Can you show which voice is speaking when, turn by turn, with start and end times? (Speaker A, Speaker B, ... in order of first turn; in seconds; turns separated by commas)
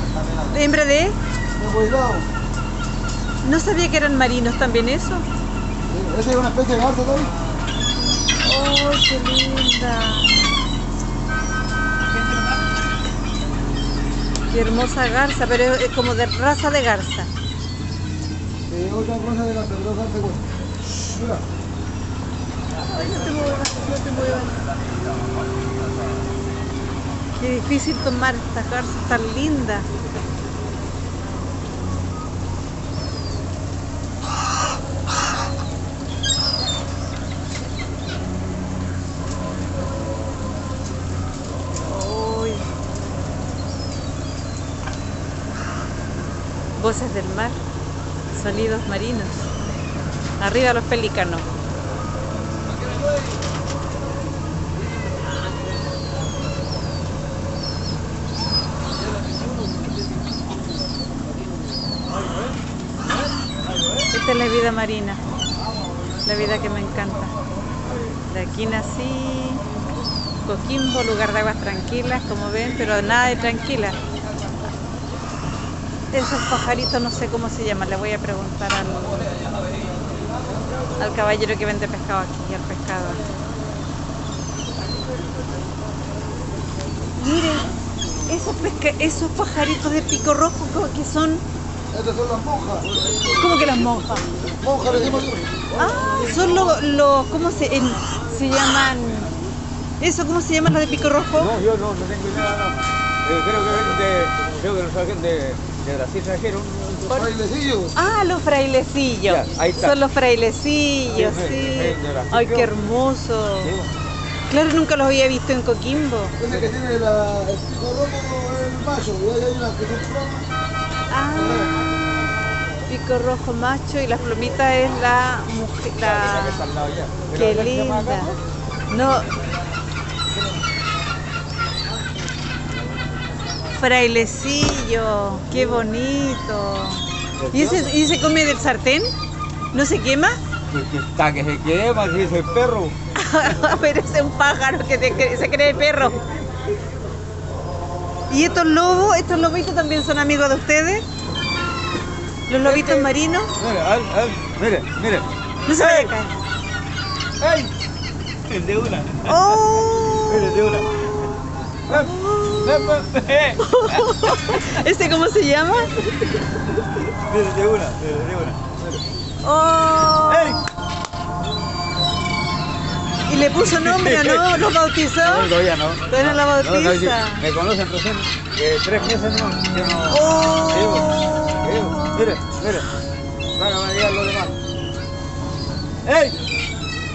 Speaker A: 0.5-1.2, Speaker B: 1.6-2.3, Speaker A: 3.4-5.2, Speaker B: 5.9-7.3, Speaker A: 8.4-10.4, Speaker A: 14.5-17.3, Speaker B: 18.7-21.4, Speaker A: 22.9-24.6, Speaker A: 27.3-29.9, Speaker A: 41.9-42.7, Speaker A: 46.8-47.6, Speaker A: 48.3-49.5, Speaker A: 50.4-51.5, Speaker A: 64.1-65.2, Speaker A: 66.2-67.3, Speaker A: 68.2-69.6, Speaker A: 70.4-74.0, Speaker A: 76.1-79.4, Speaker A: 81.0-83.2, Speaker A: 87.1-87.7, Speaker A: 88.2-91.4, Speaker B: 91.9-93.2, Speaker A: 93.3-94.3, Speaker B: 94.5-95.5, Speaker A: 95.7-99.3, Speaker A: 100.0-101.6, Speaker C: 101.3-107.2, Speaker B: 107.1-107.9, Speaker A: 107.9-113.7, Speaker C: 109.2-110.0, Speaker C: 111.1-112.8, Speaker C: 113.6-113.9, Speaker A: 114.5-116.3, Speaker B: 116.4-120.5, Speaker A: 121.1-121.8, Speaker B: 121.3-121.7, Speaker A: 122.9-126.7, Speaker C: 126.0-128.4, Speaker A: 127.3-128.3, Speaker A: 128.9-129.3, Speaker A: 133.7-139.1, Speaker C: 137.4-137.9, Speaker A: 139.7-140.4, Speaker C: 140.7-143.0, Speaker A: 143.1-146.2, Speaker A: 148.3-151.0, Speaker A: 152.5-153.5, Speaker C: 152.6-156.1, Speaker A: 155.7-156.3, Speaker C: 157.4-157.7, Speaker C: 158.5-161.3, Speaker A: 159.2-161.0, Speaker C: 161.9-164.1, Speaker A: 161.9-162.9, Speaker A: 163.6-166.5, Speaker C: 166.9-169.0, Speaker A: 169.4-170.7, Speaker C: 170.1-170.6, Speaker A: 173.3-175.5, Speaker C: 173.6-174.7, Speaker C: 175.2-182.9, Speaker A: 176.1-177.4, Speaker A: 180.1-181.1, Speaker A: 181.7-182.4, Speaker C: 183.6-184.5, Speaker C: 186.0-186.4